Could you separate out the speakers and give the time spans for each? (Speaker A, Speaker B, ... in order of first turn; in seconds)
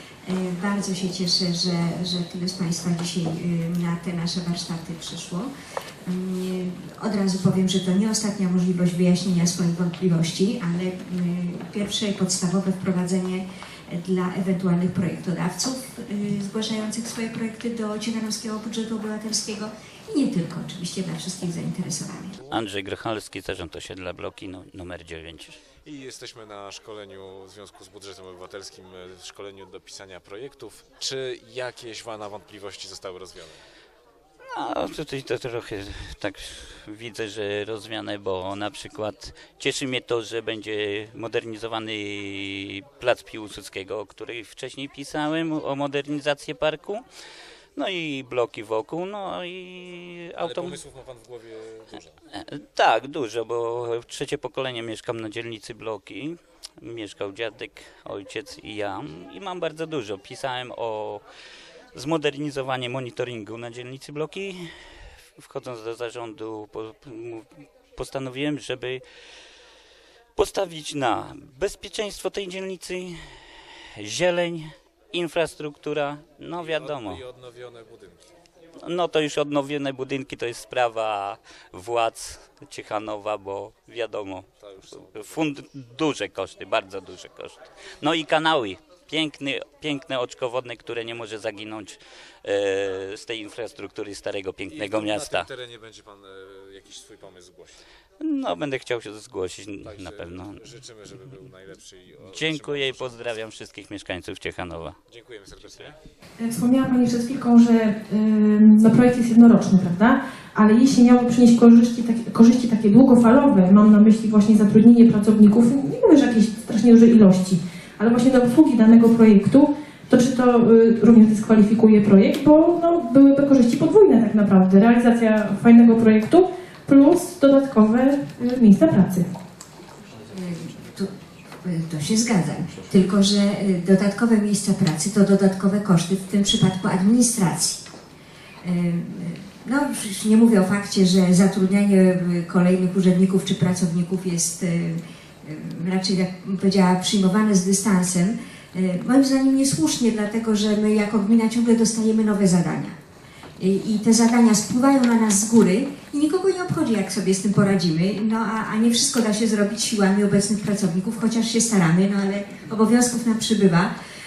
Speaker A: 0.2-5.5, 6.0-22.4, 130.3-131.1, 131.6-137.8, 138.6-153.0, 153.6-163.9
Speaker B: 22.5-25.6, 34.5-47.0, 47.8-50.8, 52.3-61.2, 61.9-64.7, 65.4-69.0, 70.4-73.2, 74.0-77.2, 78.8-84.5, 85.2-95.5, 98.2-100.6, 102.3-105.0
Speaker C: 25.8-33.6, 50.4-52.2, 76.6-78.3, 84.6-85.5, 94.7-97.8, 99.8-103.4, 105.1-106.0
Speaker D: 106.4-129.3